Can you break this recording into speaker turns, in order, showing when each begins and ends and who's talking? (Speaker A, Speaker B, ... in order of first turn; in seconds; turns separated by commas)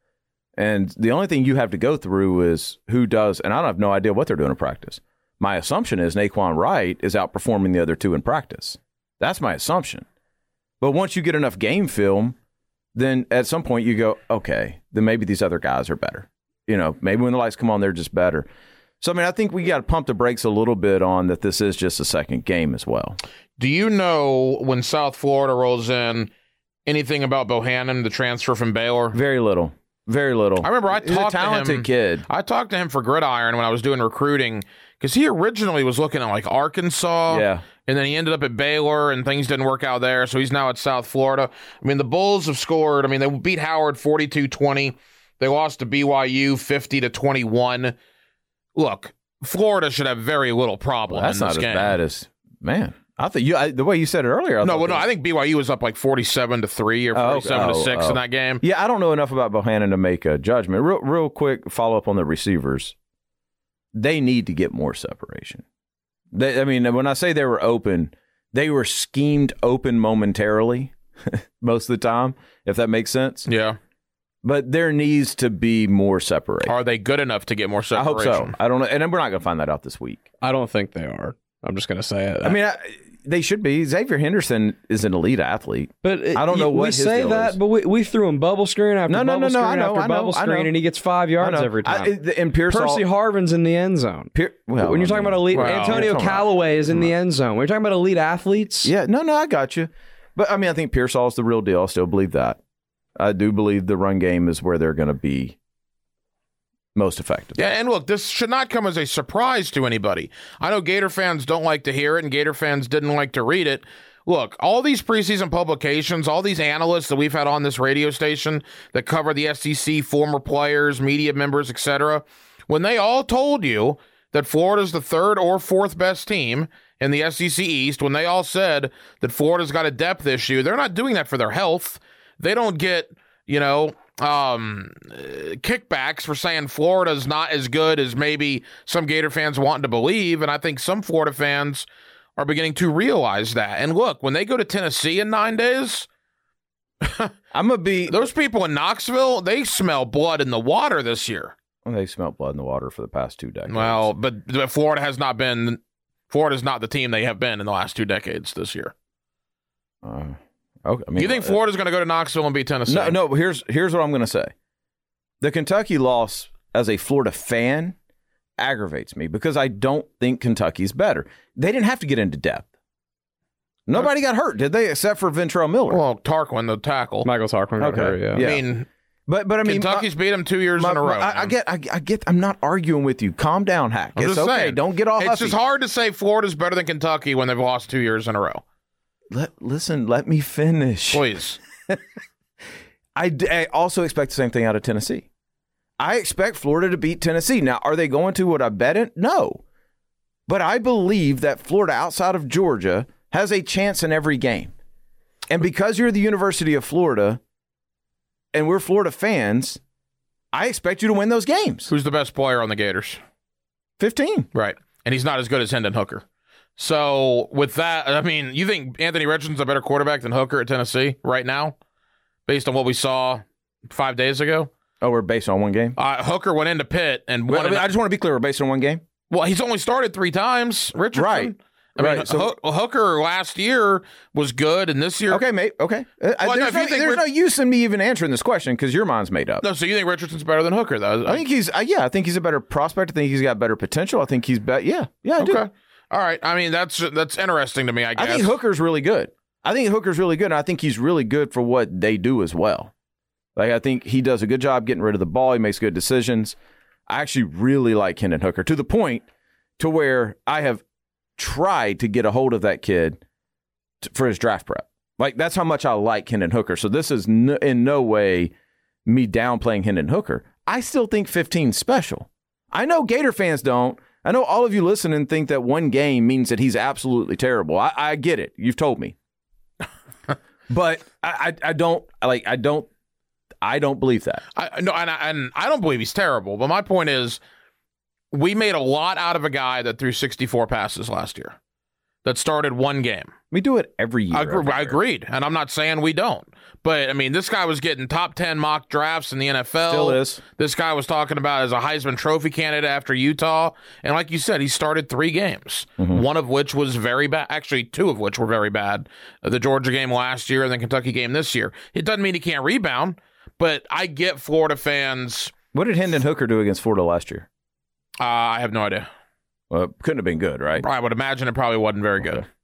Speaker A: 0.6-10.0, Speaker A: 10.8-12.3, Speaker A: 12.9-18.5, Speaker A: 19.0-23.2, Speaker B: 23.6-26.3, Speaker B: 26.9-29.2, Speaker A: 29.1-32.2, Speaker B: 30.6-48.0, Speaker A: 37.3-37.6, Speaker B: 48.8-52.0, Speaker A: 51.1-55.0, Speaker B: 54.6-58.6, Speaker A: 57.1-62.9, Speaker A: 63.9-65.6, Speaker A: 66.3-73.5, Speaker B: 73.5-73.8, Speaker A: 74.4-76.7, Speaker B: 76.6-78.5, Speaker A: 77.9-80.2, Speaker C: 80.4-82.6, Speaker A: 82.4-87.6, Speaker C: 86.0-98.9, Speaker A: 89.1-90.7, Speaker A: 91.4-93.0, Speaker A: 94.3-97.1, Speaker B: 95.5-96.1, Speaker A: 98.8-102.6, Speaker A: 103.2-105.6, Speaker A: 106.9-107.6, Speaker B: 107.5-146.1, Speaker B: 147.0-147.3, Speaker A: 147.5-148.2, Speaker B: 148.1-151.5, Speaker A: 151.8-154.1, Speaker B: 153.7-158.9, Speaker A: 160.0-161.6, Speaker B: 161.2-163.2, Speaker A: 162.9-164.5, Speaker A: 165.4-167.9, Speaker A: 168.6-172.7, Speaker A: 173.9-176.0, Speaker B: 175.9-177.3, Speaker C: 177.2-178.4, Speaker A: 177.8-178.6, Speaker B: 178.3-178.9, Speaker A: 179.3-180.1, Speaker B: 179.6-181.5, Speaker A: 180.8-185.6, Speaker B: 184.2-188.6, Speaker A: 189.3-191.2, Speaker B: 191.1-191.6, Speaker A: 193.2-195.3, Speaker A: 196.0-199.6, Speaker A: 200.5-204.7, Speaker A: 205.5-207.4, Speaker A: 208.5-209.8, Speaker A: 210.5-211.9, Speaker B: 211.9-213.2, Speaker A: 214.0-214.5, Speaker B: 214.5-216.2, Speaker B: 216.8-221.8, Speaker B: 222.4-224.7, Speaker A: 225.0-225.9, Speaker B: 225.9-227.9, Speaker A: 227.5-229.0, Speaker B: 229.3-235.4, Speaker A: 231.1-232.5, Speaker A: 235.3-239.6, Speaker B: 236.4-237.2, Speaker B: 239.6-241.4, Speaker A: 241.2-245.6, Speaker B: 245.4-248.5, Speaker A: 248.2-252.9, Speaker A: 253.6-259.2, Speaker A: 259.8-260.8, Speaker A: 261.4-263.2, Speaker A: 264.0-268.5, Speaker A: 269.1-279.1, Speaker A: 280.7-282.9, Speaker A: 283.6-284.4, Speaker B: 284.5-287.4, Speaker B: 288.3-291.6, Speaker B: 292.2-293.3, Speaker A: 293.5-295.0, Speaker B: 294.3-315.5, Speaker A: 299.9-300.4, Speaker A: 315.7-317.5, Speaker B: 318.2-319.1, Speaker A: 319.7-320.8, Speaker B: 320.8-322.4